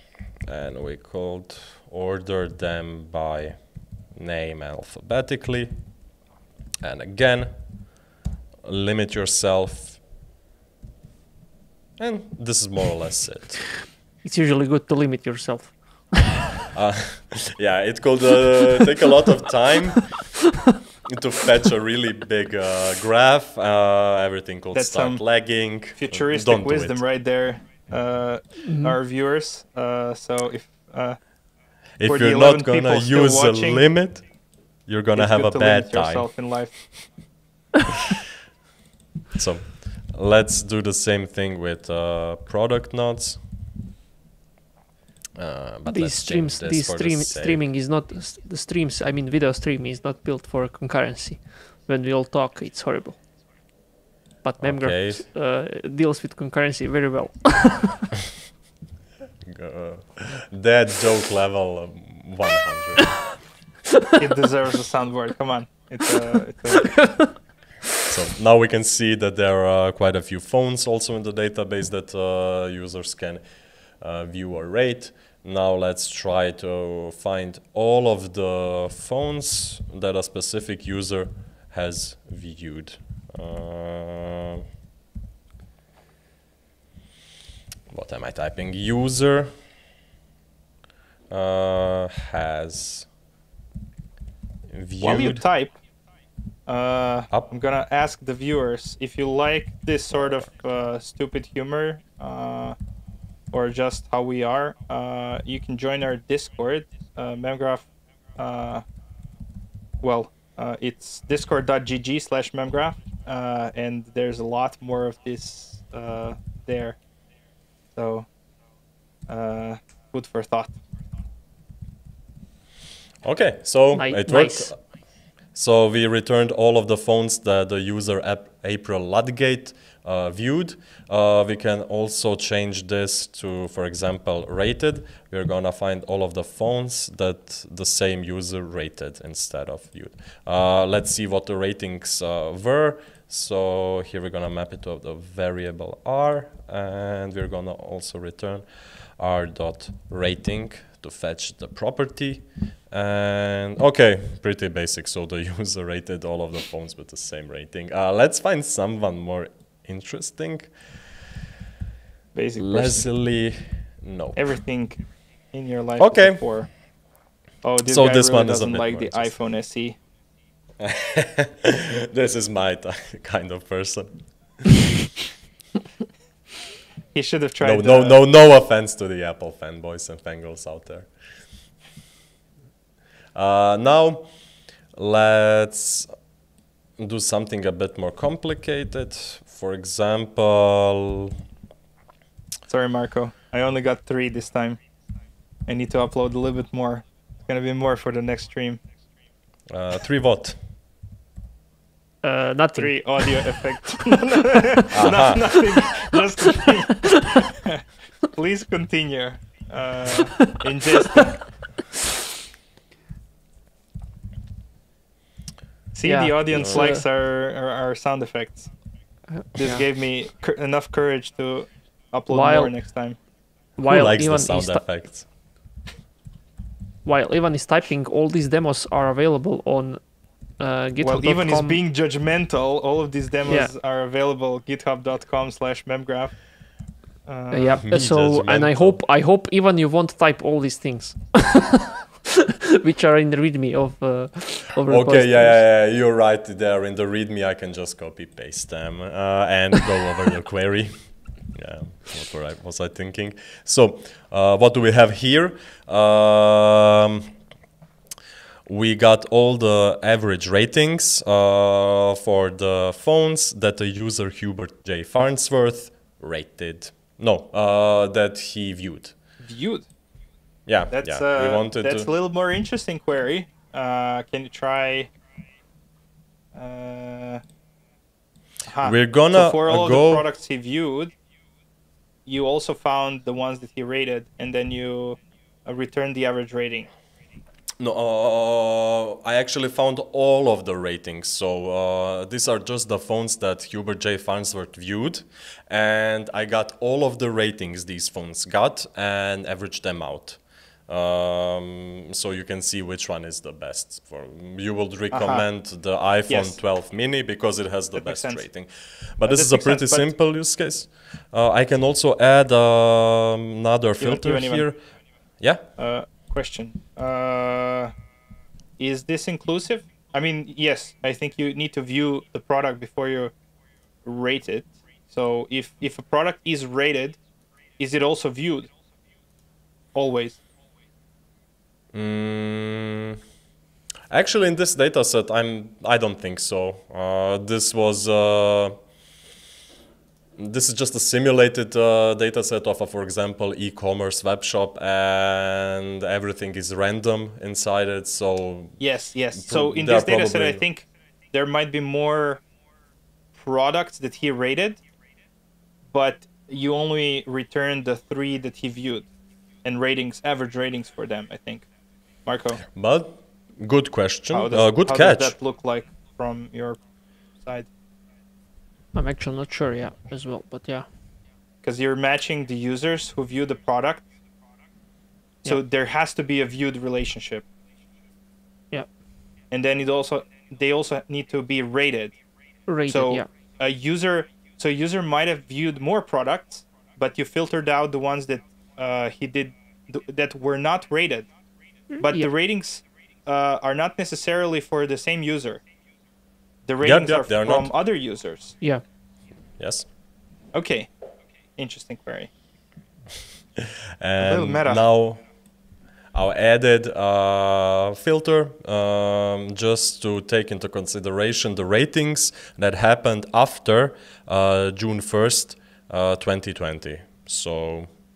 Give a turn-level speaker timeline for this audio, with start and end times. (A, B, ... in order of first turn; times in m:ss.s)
0:00.5-0:05.8 A
0:06.8-0:07.5 A
0:08.6-0:10.0 A
0:12.0-0:13.8 A
0:14.2-0:16.5 B
0:16.7-0:20.3 A
0:21.1-0:27.0 A
0:24.7-0:25.2 C
0:25.9-0:31.2 C
0:28.7-0:29.0 B
0:32.0-0:34.3 A
0:32.0-0:33.9 C
0:34.8-0:36.3 A
0:35.1-0:37.1 C
0:39.4-0:43.4 A
0:45.4-0:47.6 A
0:45.9-0:53.2 B
0:54.4-0:58.1 B
0:54.6-0:55.2 A
0:59.4-1:03.4 A
1:04.2-1:07.2 C
1:06.8-1:07.3 B
1:08.1-1:13.4 A
1:14.0-1:24.6 A
1:27.9-1:29.5 A
1:31.3-1:33.1 A
1:34.7-1:35.4 A
1:35.0-1:35.8 C
1:36.7-1:42.8 C
1:43.5-1:48.8 C
1:50.0-1:57.0 C
1:58.0-1:58.3 C
1:59.3-2:00.8 C
2:03.2-2:04.8 A
2:03.9-2:04.7 B
2:05.5-2:28.6 A
2:29.2-2:40.8 A
2:42.4-2:43.1 C
2:42.6-2:44.4 A
2:44.4-2:46.7 C
2:46.0-2:46.4 A
2:47.6-2:50.0 C
2:47.8-2:49.3 A
2:50.8-2:54.3 A
2:57.1-2:58.2 C
2:57.6-3:01.1 A
3:03.3-3:04.3 A
3:04.9-3:06.1 A
3:07.0-3:11.3 A
3:12.7-3:14.8 C
3:15.7-3:18.8 C
3:19.7-3:20.6 A
3:22.2-3:23.5 B
3:22.8-3:31.4 C
3:24.9-3:25.6 A
3:35.9-3:38.7 C
3:36.1-3:37.0 B
3:36.5-3:36.8 A
3:39.3-3:39.8 B
3:39.6-3:43.2 C
3:42.3-3:42.8 B
3:43.8-3:45.2 A
3:43.8-3:44.8 B
3:47.0-3:50.0 B
3:50.6-3:51.8 B
3:51.0-3:56.3 C
3:57.3-3:57.8 C
3:57.5-4:05.6 B
3:57.9-3:59.0 A
4:04.8-4:17.3 A
4:18.7-4:29.2 A
4:29.4-4:29.9 C
4:30.7-4:32.1 A
4:30.9-4:35.1 C
4:36.6-4:37.4 C
4:38.7-4:41.1 C
4:38.8-4:40.3 A
4:42.3-4:46.9 C
4:47.8-5:14.8 A
5:05.1-5:05.5 C
5:06.3-5:06.6 C
5:08.0-5:08.5 C
5:09.3-5:10.1 C
5:14.0-5:14.7 C
5:15.4-5:15.6 A
5:15.8-5:17.9 C
5:18.8-5:23.3 C
5:24.0-5:27.2 C
5:27.8-5:28.7 C
5:30.0-5:30.4 C
5:31.9-5:33.2 A
5:34.1-5:38.8 A
5:40.4-5:48.8 A
5:48.8-5:52.4 C
5:49.4-5:50.7 A
5:53.4-5:54.8 C
5:55.9-5:59.1 C
5:59.6-6:01.7 C
6:02.3-6:02.6 C
6:02.7-6:05.4 A
6:04.3-6:06.8 C
6:07.4-6:07.7 C
6:08.9-6:10.9 B
6:11.6-6:14.1 C
6:15.4-6:17.5 C
6:19.5-6:22.2 C
6:22.7-6:23.2 B
6:22.9-6:31.3 C
6:31.9-6:32.3 B
6:32.0-6:35.6 C
6:36.7-6:38.6 C
6:36.8-6:37.7 A
6:39.6-6:39.9 A
6:40.5-6:40.9 C
6:41.6-6:42.3 C
6:43.6-6:45.2 A
6:44.2-6:44.8 C
6:46.1-6:57.9 A